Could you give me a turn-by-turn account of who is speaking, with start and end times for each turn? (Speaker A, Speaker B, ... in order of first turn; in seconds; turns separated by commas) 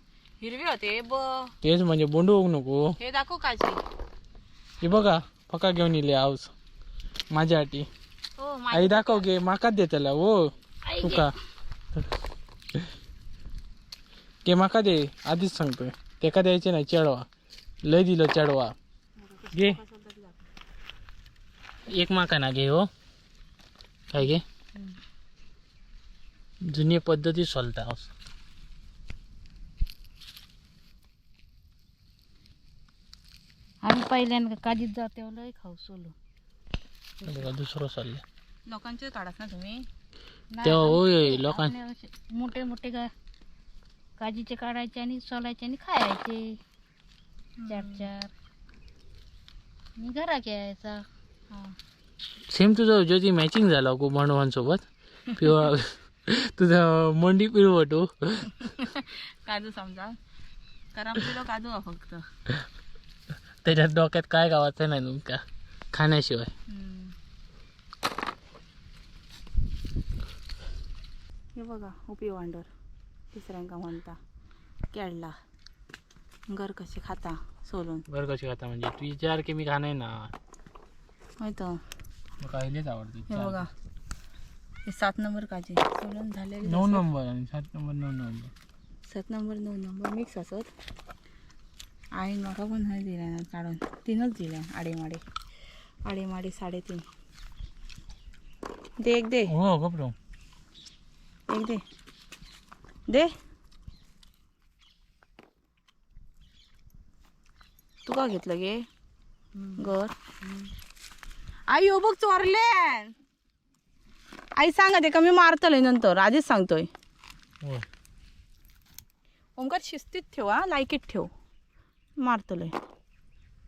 Speaker A: 0.4-1.5, Speaker B: 1.6-2.9, Speaker A: 3.0-3.8, Speaker B: 4.8-6.5, Speaker B: 7.3-7.9, Speaker A: 8.4-9.3, Speaker B: 8.7-11.3, Speaker B: 14.4-17.3, Speaker B: 17.8-18.7, Speaker A: 19.2-20.5, Speaker B: 21.9-22.9, Speaker B: 24.1-24.4, Speaker B: 26.6-28.1, Speaker C: 33.8-36.1, Speaker B: 37.2-38.2, Speaker A: 38.7-39.9, Speaker C: 40.5-43.1, Speaker B: 40.6-41.7, Speaker C: 44.2-46.6, Speaker A: 47.6-48.1, Speaker C: 47.6-48.3, Speaker C: 50.0-51.0, Speaker B: 52.5-58.6, Speaker A: 58.6-60.2, Speaker A: 60.9-62.2, Speaker B: 63.6-66.5, Speaker A: 66.7-67.1, Speaker A: 71.5-72.7, Speaker A: 73.3-74.2, Speaker A: 74.9-75.3, Speaker A: 76.5-78.0, Speaker B: 78.1-80.3, Speaker A: 81.4-81.8, Speaker B: 82.4-83.7, Speaker A: 83.3-83.7, Speaker A: 84.8-87.0, Speaker B: 86.6-88.5, Speaker A: 89.0-90.7, Speaker A: 92.1-95.2, Speaker A: 96.0-97.1, Speaker A: 99.0-99.5, Speaker B: 99.5-100.1, Speaker A: 101.5-101.8, Speaker A: 108.0-108.8, Speaker C: 109.5-110.7, Speaker A: 109.8-110.1, Speaker A: 111.7-113.1, Speaker A: 114.6-116.9, Speaker A: 119.6-121.3, Speaker A: 122.2-122.7